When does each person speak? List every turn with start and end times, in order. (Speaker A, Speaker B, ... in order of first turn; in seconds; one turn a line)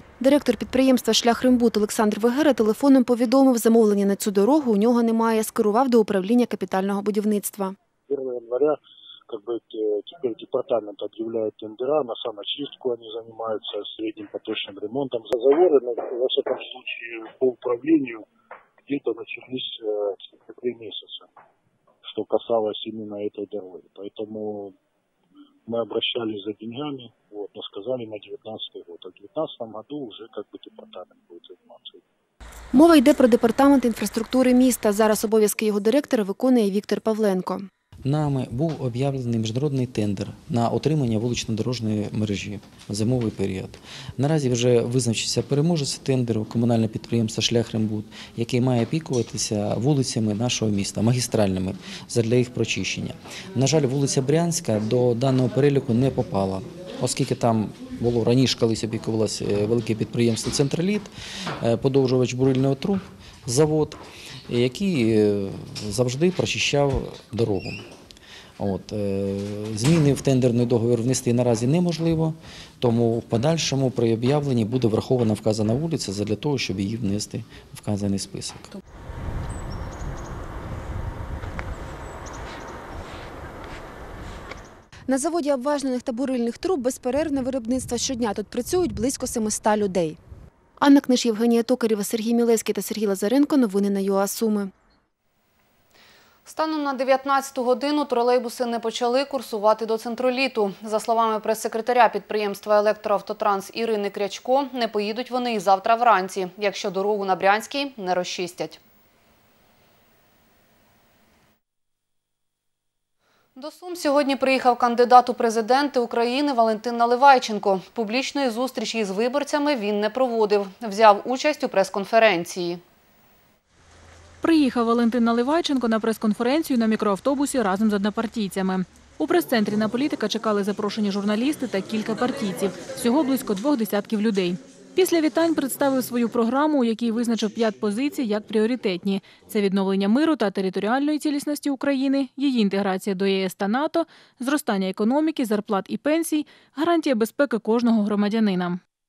Speaker A: 0.2-7.7
Speaker B: 8.1-18.2
Speaker B: 18.9-21.3
Speaker B: 22.0-24.7
Speaker B: 25.6-32.0
Speaker A: 32.7-37.7
Speaker C: 38.0-61.1
Speaker C: 61.6-67.8
Speaker C: 68.6-78.7
Speaker A: 85.1-90.2
Speaker A: 90.8-94.7
Speaker D: 96.5-108.8
Speaker D: 113.5-122.8
Speaker E: 124.4-148.8